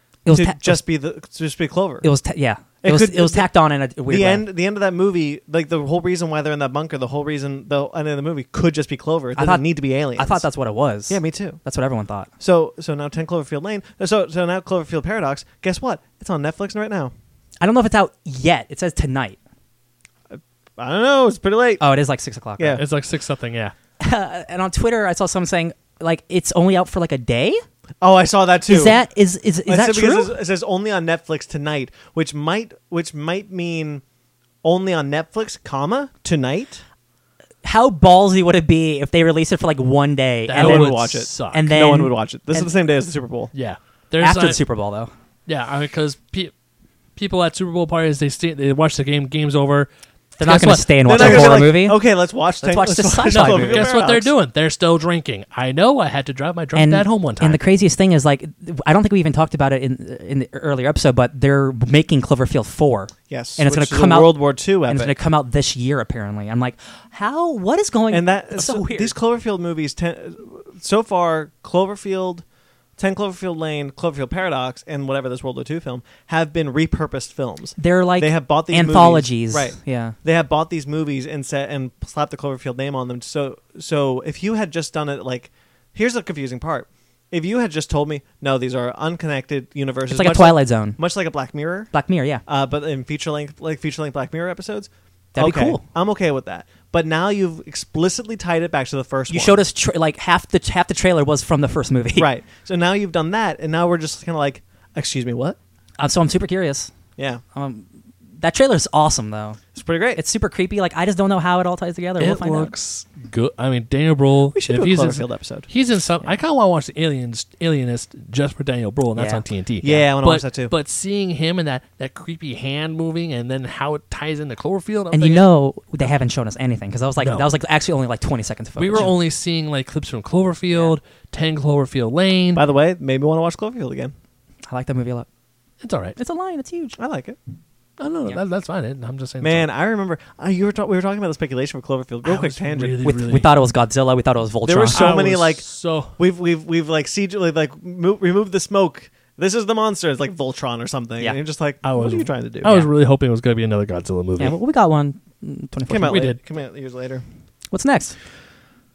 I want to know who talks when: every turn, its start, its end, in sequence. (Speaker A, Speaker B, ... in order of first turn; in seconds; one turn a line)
Speaker A: 0.2-0.8
Speaker B: 0.3-2.1
Speaker A: 2.0-4.4
Speaker B: 2.8-3.5
Speaker B: 4.1-10.4
Speaker A: 9.3-9.6
Speaker A: 10.2-12.3
Speaker B: 11.1-11.6
Speaker B: 12.4-17.1
Speaker A: 17.6-19.4
Speaker B: 20.3-21.8
Speaker A: 21.8-22.8
Speaker B: 22.6-22.8
Speaker C: 22.8-23.7
Speaker A: 24.0-27.6
Speaker B: 28.0-29.0
Speaker A: 28.7-30.3
Speaker B: 29.7-34.0
Speaker B: 34.6-36.8
Speaker A: 37.6-42.7
Speaker C: 40.5-41.7
Speaker B: 40.5-43.5
Speaker C: 43.5-44.6
Speaker A: 44.2-45.1
Speaker C: 45.5-46.5
Speaker C: 47.1-51.7
Speaker A: 50.4-52.0
Speaker B: 51.0-54.3
Speaker A: 52.6-53.9
Speaker C: 53.3-57.6
Speaker A: 56.7-64.3
Speaker B: 63.3-65.1
Speaker A: 64.9-69.1
Speaker B: 68.1-72.4
Speaker B: 73.0-91.9
Speaker A: 77.8-80.1
Speaker A: 90.1-91.0
Speaker A: 91.9-92.4
Speaker B: 92.5-99.6
Speaker A: 95.3-95.8
Speaker A: 99.3-102.3
Speaker B: 102.2-105.6
Speaker A: 106.0-106.9
Speaker B: 107.2-107.4
Speaker A: 107.5-107.8
Speaker A: 108.4-109.6
Speaker B: 109.7-110.2
Speaker A: 110.1-112.7
Speaker C: 112.2-125.5
Speaker B: 114.5-115.7
Speaker A: 119.2-119.4
Speaker B: 119.8-120.7
Speaker A: 125.1-129.1
Speaker C: 127.2-127.5
Speaker C: 128.8-132.6
Speaker B: 132.5-134.1
Speaker A: 134.7-135.3
Speaker C: 135.8-136.2
Speaker A: 136.2-137.0
Speaker B: 137.0-137.4
Speaker C: 138.0-139.7
Speaker B: 139.4-143.0
Speaker C: 142.2-143.5
Speaker A: 143.0-145.1
Speaker B: 144.6-152.8
Speaker C: 144.9-146.2
Speaker C: 151.8-154.6
Speaker A: 154.4-156.2
Speaker B: 155.9-157.2
Speaker C: 156.0-156.4
Speaker A: 157.7-158.2